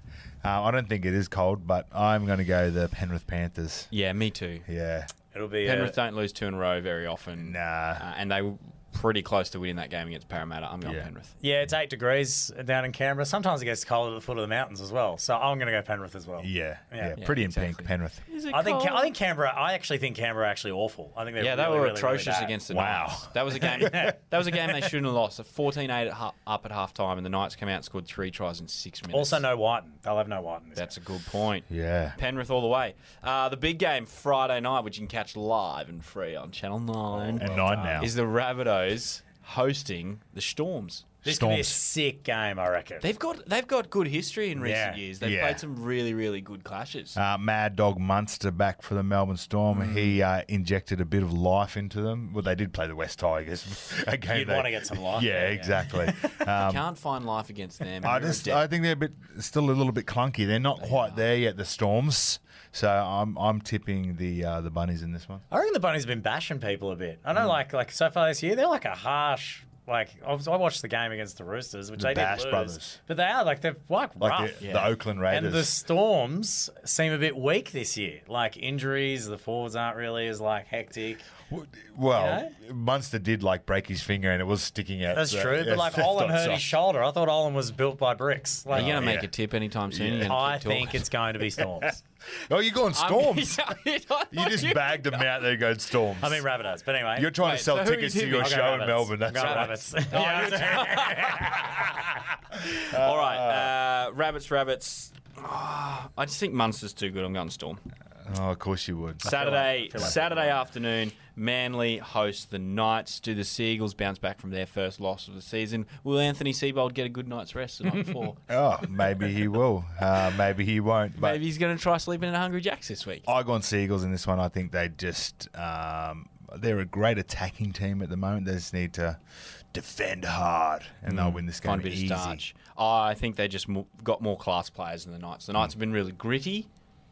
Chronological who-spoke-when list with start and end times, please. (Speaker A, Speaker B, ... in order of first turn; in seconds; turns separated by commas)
Speaker A: 0.4-3.9, Speaker B: 3.9-4.7, Speaker A: 4.7-5.1, Speaker C: 5.3-6.0, Speaker B: 5.7-11.4, Speaker A: 7.4-8.0, Speaker C: 11.4-17.2, Speaker A: 16.4-18.2, Speaker B: 17.2-19.1, Speaker C: 18.5-22.6, Speaker B: 21.4-29.4, Speaker A: 22.7-24.1, Speaker C: 23.5-24.2, Speaker C: 29.1-30.9, Speaker B: 30.8-41.1, Speaker A: 31.7-32.2, Speaker C: 37.2-38.1, Speaker A: 37.4-38.1, Speaker A: 41.2-41.8, Speaker C: 41.2-43.1, Speaker B: 43.0-47.2, Speaker C: 44.6-45.0, Speaker A: 45.2-45.6, Speaker A: 47.1-56.9, Speaker B: 49.7-50.2, Speaker C: 54.3-56.0, Speaker B: 56.3-58.7, Speaker A: 58.0-65.4, Speaker B: 60.8-61.2, Speaker C: 65.5-74.7, Speaker A: 72.0-73.0, Speaker A: 74.2-75.8, Speaker B: 74.6-75.0, Speaker C: 75.2-81.2, Speaker A: 81.5-86.7, Speaker C: 82.1-82.5, Speaker C: 85.1-89.1, Speaker A: 88.7-89.3, Speaker B: 88.7-91.1, Speaker A: 89.9-90.3, Speaker C: 90.2-92.0, Speaker A: 91.6-91.8, Speaker A: 92.5-93.7, Speaker B: 92.9-95.5, Speaker A: 94.3-96.5, Speaker C: 96.2-97.3, Speaker A: 97.1-99.9, Speaker B: 97.4-98.8, Speaker C: 98.3-101.6, Speaker B: 99.3-107.8, Speaker A: 102.9-103.7, Speaker A: 108.2-109.3, Speaker C: 109.2-110.7, Speaker B: 109.2-118.5, Speaker A: 110.0-110.2, Speaker A: 118.5-121.4, Speaker B: 121.2-123.3, Speaker A: 123.3-129.2, Speaker A: 129.7-132.4, Speaker B: 131.1-136.7